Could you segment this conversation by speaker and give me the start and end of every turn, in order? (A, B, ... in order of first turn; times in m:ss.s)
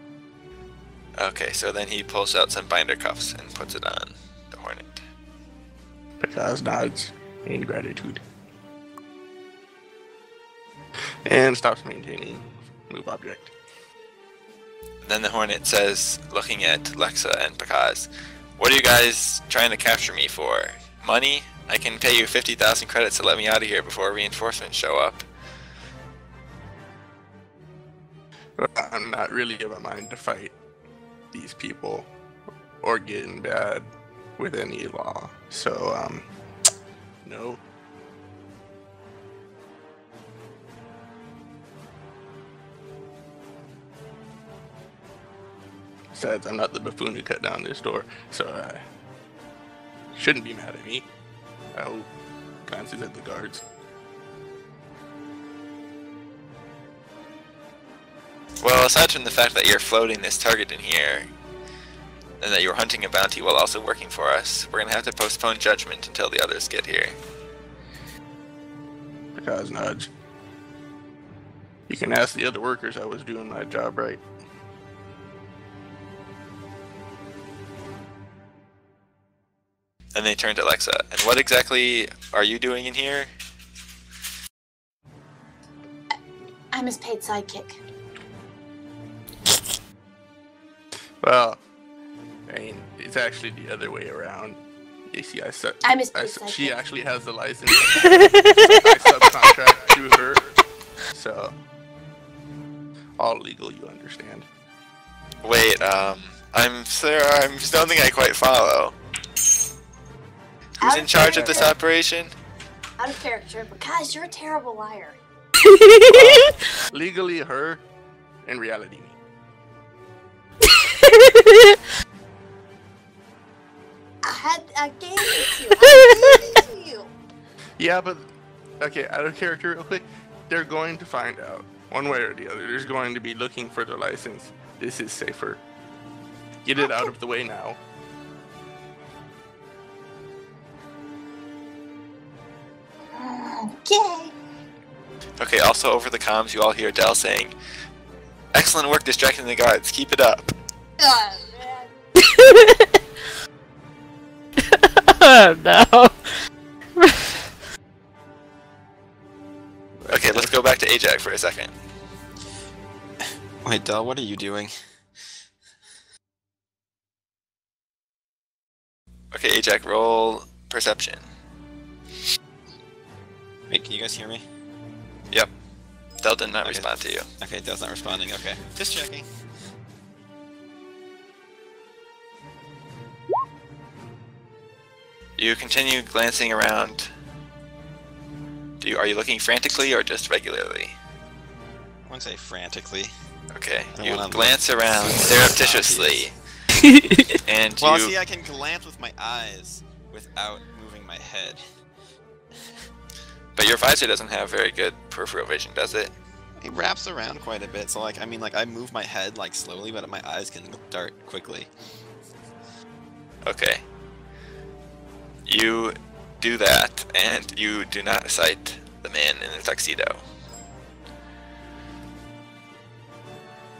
0:01.2-0:05.0 A
0:06.2-0:08.2 B
0:11.2-0:13.5 B
0:15.0-0:25.2 A
0:28.6-0:30.5 B
0:31.3-0:32.1 B
0:32.8-0:36.2 B
0:37.2-0:37.6 B
0:46.1-0:48.8 B
0:50.1-0:51.1 B
0:51.7-0:52.1 B
0:52.6-0:53.6 B
0:58.6-1:01.3 A
1:02.4-1:07.1 A
1:09.4-1:10.1 B
1:11.9-1:14.2 B
1:20.1-1:23.3 A
1:26.7-1:27.8 C
1:31.2-1:31.6 B
1:32.5-1:34.6 B
1:35.1-1:40.6 B
1:35.8-1:36.8 C
1:38.3-1:38.7 D
1:41.1-1:41.5 B
1:43.2-1:44.4 B
1:45.4-1:48.9 A
1:50.8-1:51.7 C
1:50.8-1:52.3 A
1:51.4-1:51.6 B
1:53.0-1:55.2 C
1:55.6-1:56.5 D
1:56.1-1:57.8 B
1:58.4-1:59.2 B
2:00.7-2:01.7 D
2:04.2-2:07.1 C
2:07.8-2:08.2 B
2:08.8-2:15.6 B
2:16.6-2:17.8 B
2:16.8-2:17.1 C
2:23.1-2:24.3 C
2:25.4-2:27.5 A
2:28.5-2:30.5 A
2:31.0-2:31.9 C
2:32.2-2:32.9 D
2:34.7-2:36.3 D
2:37.0-2:37.4 D
2:40.1-2:41.7 A
2:43.6-2:44.7 E
2:49.3-2:51.2 A
2:53.7-2:54.4 E
2:56.2-2:57.3 A
2:57.4-2:59.2 E
3:05.4-3:07.1 A
3:08.8-3:11.0 A
3:12.0-3:13.1 E
3:13.5-3:16.3 A
3:13.9-3:16.3 E
3:16.9-3:17.3 D
3:17.3-3:18.1 A
3:17.8-3:21.6 E
3:23.5-3:26.1 A
3:26.6-3:31.7 E
3:33.4-3:33.8 A
3:35.4-3:40.2 A